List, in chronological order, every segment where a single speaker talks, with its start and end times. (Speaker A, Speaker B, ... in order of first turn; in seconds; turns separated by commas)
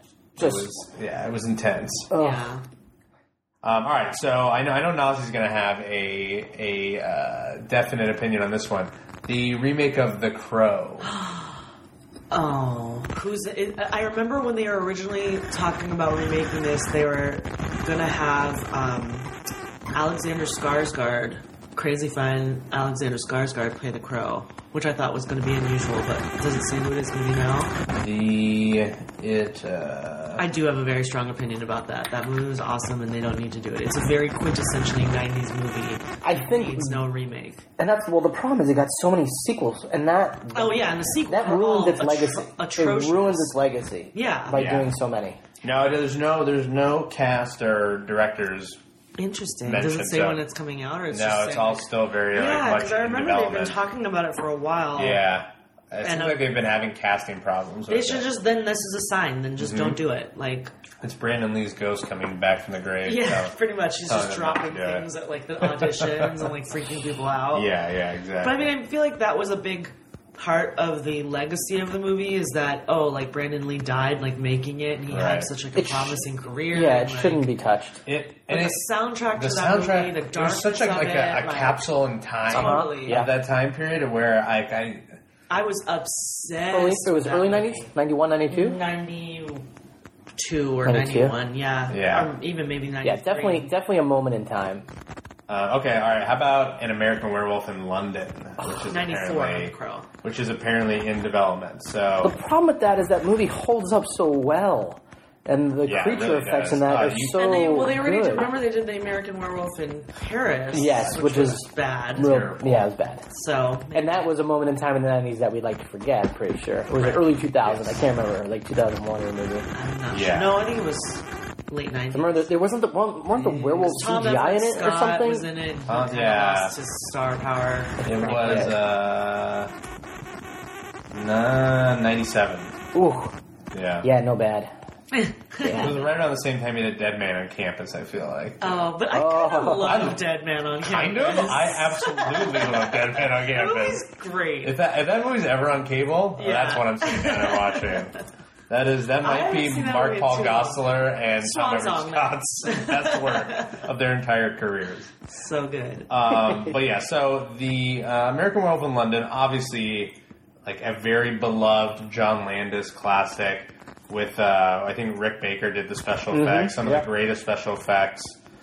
Speaker A: 0.4-2.1, Speaker B: 0.4-0.7, Speaker B: 2.1-2.5, Speaker C: 2.1-2.6, Speaker A: 3.6-11.1, Speaker C: 11.0-11.6, Speaker C: 12.3-19.3, Speaker C: 19.9-27.7, Speaker A: 27.9-30.4, Speaker C: 30.4-37.6, Speaker B: 36.2-37.1, Speaker B: 37.8-45.4, Speaker C: 40.5-43.5, Speaker C: 44.1-44.6, Speaker A: 44.5-44.9, Speaker A: 45.6-48.8, Speaker C: 49.2-55.2, Speaker A: 49.6-50.4, Speaker A: 51.1-53.8, Speaker A: 55.0-58.3, Speaker C: 56.0-56.4, Speaker C: 57.9-60.7, Speaker A: 59.6-60.0, Speaker A: 61.0-63.6, Speaker C: 63.0-67.7, Speaker A: 64.1-65.1, Speaker A: 65.6-66.5, Speaker A: 67.5-68.7, Speaker C: 68.4-77.5, Speaker A: 75.1-75.5, Speaker B: 75.8-78.0, Speaker A: 78.1-85.2, Speaker C: 78.5-81.8, Speaker C: 82.5-83.3, Speaker B: 82.5-83.3, Speaker C: 85.5-87.9, Speaker B: 86.7-88.8, Speaker C: 88.5-89.7, Speaker C: 90.4-93.7, Speaker B: 90.8-91.4, Speaker A: 91.9-92.3, Speaker B: 93.0-94.9, Speaker A: 95.5-102.4, Speaker C: 98.7-100.1, Speaker B: 102.2-108.5, Speaker A: 105.8-107.5, Speaker C: 107.3-112.3, Speaker B: 110.7-113.3, Speaker A: 112.2-112.9, Speaker C: 113.3-114.3, Speaker B: 113.9-119.7, Speaker C: 116.9-117.2, Speaker A: 117.6-118.0, Speaker C: 119.7-122.5, Speaker A: 120.1-120.6, Speaker B: 122.1-125.5, Speaker C: 123.3-128.8, Speaker A: 125.9-126.8, Speaker B: 128.0-128.8, Speaker A: 128.0-129.7, Speaker A: 131.1-132.8, Speaker B: 132.9-133.3, Speaker A: 133.7-134.1, Speaker B: 134.0-134.7, Speaker C: 135.1-136.0, Speaker B: 135.6-136.0, Speaker A: 135.7-138.8, Speaker C: 138.6-144.8, Speaker B: 139.1-140.1, Speaker A: 139.8-140.2, Speaker A: 140.8-144.1, Speaker A: 144.6-148.2, Speaker C: 146.4-148.1, Speaker A: 148.7-155.1, Speaker C: 149.2-150.9, Speaker C: 151.4-153.8, Speaker C: 155.3-156.1, Speaker A: 156.1-168.4, Speaker B: 166.3-167.1